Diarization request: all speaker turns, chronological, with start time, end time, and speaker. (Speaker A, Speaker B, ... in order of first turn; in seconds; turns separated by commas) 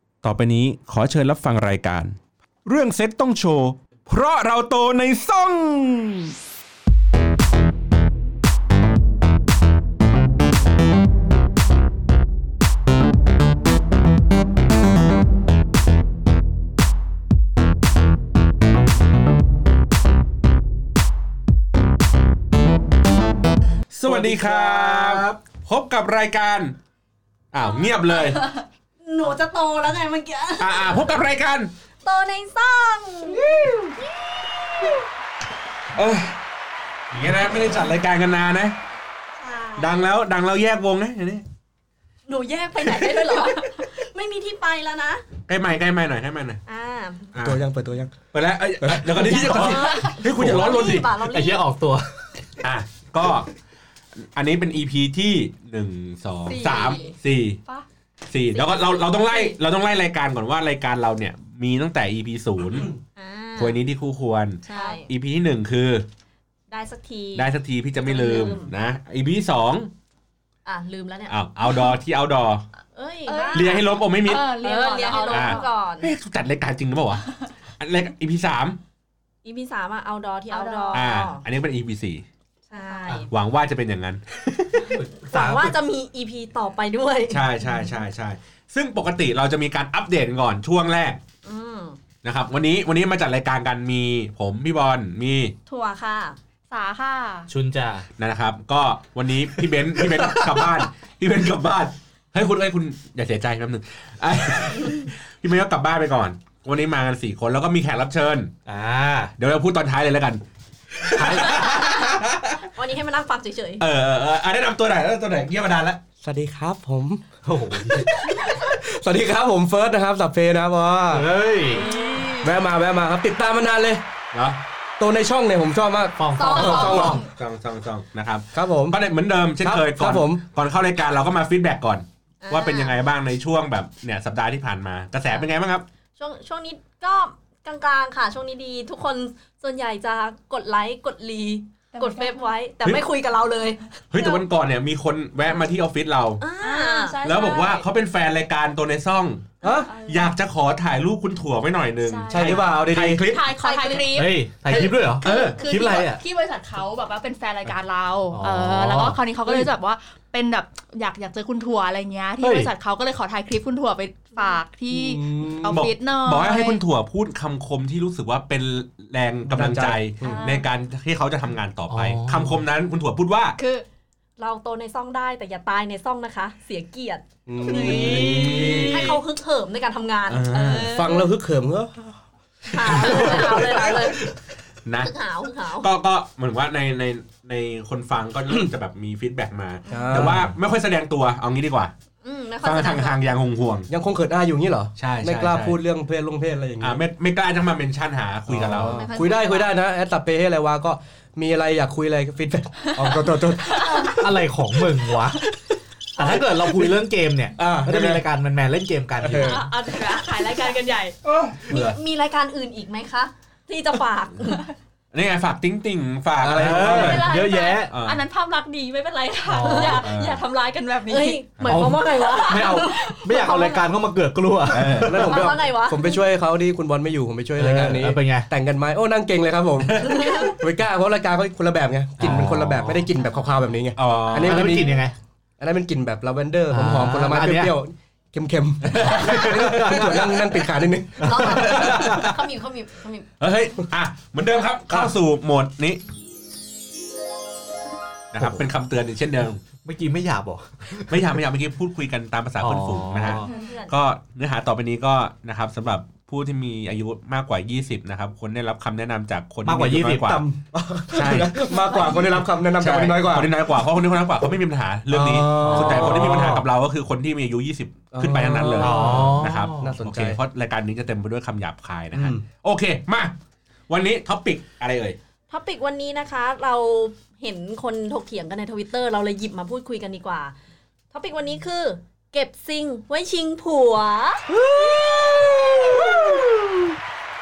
Speaker A: 0.2-6.3, Speaker A: 23.9-26.8, Speaker B: 24.1-25.4, Speaker A: 27.5-28.4, Speaker C: 29.0-31.2, Speaker A: 30.6-31.7, Speaker C: 32.0-33.5, Speaker D: 33.5-33.8, Speaker A: 36.0-36.3, Speaker A: 37.1-38.8, Speaker C: 39.4-40.0, Speaker A: 39.8-41.4, Speaker C: 42.3-45.2, Speaker A: 43.0-43.3, Speaker A: 45.5-46.6, Speaker C: 46.7-47.3, Speaker A: 47.3-47.6, Speaker D: 47.4-48.2, Speaker A: 48.3-51.1, Speaker D: 48.8-49.7, Speaker C: 49.2-51.6, Speaker B: 50.3-52.2, Speaker A: 52.6-53.5, Speaker A: 54.2-57.6, Speaker E: 56.5-57.1, Speaker A: 58.3-62.9, Speaker C: 58.5-59.6, Speaker C: 63.1-63.8, Speaker A: 63.6-66.0, Speaker C: 64.6-65.1, Speaker C: 66.7-67.5, Speaker A: 67.3-69.9, Speaker C: 68.0-68.7, Speaker C: 70.6-71.3, Speaker A: 71.3-72.6, Speaker C: 72.9-76.1, Speaker E: 73.3-75.7, Speaker A: 73.5-74.5, Speaker A: 75.3-77.2, Speaker A: 77.8-78.8, Speaker C: 79.4-81.4, Speaker E: 80.5-81.1, Speaker A: 80.9-82.2, Speaker E: 82.7-83.2, Speaker C: 82.7-83.3, Speaker A: 83.3-84.9, Speaker B: 84.9-85.7, Speaker C: 85.3-87.4, Speaker A: 87.3-91.2, Speaker C: 91.4-92.0, Speaker A: 92.2-95.5, Speaker C: 95.7-96.4, Speaker E: 96.7-97.5, Speaker B: 97.5-98.0, Speaker A: 98.2-108.5, Speaker B: 108.7-109.3, Speaker A: 109.4-110.4, Speaker A: 110.9-112.6, Speaker C: 112.7-113.8, Speaker A: 113.8-116.0, Speaker D: 116.2-117.2, Speaker B: 117.4-118.1, Speaker D: 117.8-121.3, Speaker B: 121.1-121.8, Speaker E: 121.7-122.5, Speaker C: 121.7-122.4, Speaker D: 122.4-124.0, Speaker A: 124.3-124.6, Speaker D: 125.0-127.2, Speaker B: 126.2-127.2, Speaker E: 126.3-127.2, Speaker C: 126.3-127.2, Speaker A: 127.2-135.8, Speaker D: 128.5-129.0, Speaker D: 129.6-130.4, Speaker C: 132.4-132.9, Speaker C: 136.2-144.4, Speaker E: 141.9-142.5, Speaker A: 144.1-146.4, Speaker C: 146.4-147.2, Speaker E: 146.6-147.8, Speaker A: 147.2-153.4, Speaker D: 149.6-149.9, Speaker E: 149.6-150.3, Speaker E: 152.0-166.8, Speaker D: 152.3-153.2, Speaker C: 153.6-154.1, Speaker B: 154.1-156.2, Speaker C: 154.7-155.5, Speaker A: 155.2-155.6, Speaker B: 158.3-159.6, Speaker B: 162.4-162.7, Speaker D: 164.9-165.9, Speaker A: 165.7-173.6, Speaker D: 169.4-170.4, Speaker E: 170.2-170.7, Speaker B: 171.9-172.6, Speaker E: 173.6-173.8, Speaker C: 174.4-181.1, Speaker D: 177.5-179.1, Speaker E: 177.6-179.2, Speaker A: 178.0-178.8, Speaker A: 180.3-180.9, Speaker E: 180.5-181.3, Speaker D: 180.8-182.2, Speaker C: 182.7-184.2, Speaker D: 182.9-183.6, Speaker E: 183.0-183.6, Speaker A: 183.1-184.1, Speaker A: 184.8-185.1, Speaker C: 185.0-185.9, Speaker A: 185.8-191.9, Speaker D: 189.9-190.5, Speaker C: 189.9-190.3, Speaker C: 192.2-193.2, Speaker A: 192.6-193.9, Speaker D: 193.9-197.0, Speaker A: 195.0-195.8, Speaker A: 196.8-199.1, Speaker D: 198.5-204.4, Speaker C: 198.8-199.8, Speaker E: 202.8-204.2, Speaker B: 204.2-205.4, Speaker B: 206.2-209.6, Speaker D: 207.6-208.2, Speaker D: 209.2-209.6, Speaker E: 209.3-211.1, Speaker D: 211.2-211.9, Speaker C: 211.7-214.7, Speaker A: 215.1-217.3, Speaker D: 216.4-217.2, Speaker B: 216.5-217.9, Speaker E: 216.9-221.4, Speaker A: 217.9-218.2, Speaker C: 219.6-220.0, Speaker A: 219.7-220.4, Speaker C: 221.1-223.8, Speaker A: 221.6-222.0, Speaker B: 221.7-225.5, Speaker E: 222.3-223.6, Speaker A: 224.7-225.4, Speaker D: 225.0-235.0, Speaker C: 225.2-226.2, Speaker B: 227.6-228.5, Speaker A: 229.8-230.2, Speaker C: 230.0-230.5, Speaker B: 232.2-233.1, Speaker A: 233.9-234.8, Speaker B: 234.4-235.1, Speaker D: 235.6-241.8, Speaker B: 236.7-237.7, Speaker B: 238.8-240.6, Speaker A: 239.2-239.6, Speaker C: 241.2-243.3, Speaker B: 241.2-242.2, Speaker A: 241.5-242.4, Speaker A: 243.4-246.0, Speaker A: 248.3-249.6, Speaker B: 249.8-251.3, Speaker A: 251.1-260.4, Speaker B: 252.6-253.5, Speaker C: 253.4-253.9, Speaker B: 259.6-260.4, Speaker D: 260.2-263.5, Speaker A: 261.1-261.5, Speaker E: 261.7-262.2, Speaker A: 262.8-273.3, Speaker D: 265.1-266.6, Speaker B: 265.3-266.6, Speaker D: 268.1-270.4, Speaker B: 268.8-269.9, Speaker D: 272.1-272.4, Speaker A: 273.9-275.2, Speaker C: 275.5-280.5, Speaker C: 281.1-285.1, Speaker D: 284.5-286.6, Speaker C: 285.8-286.3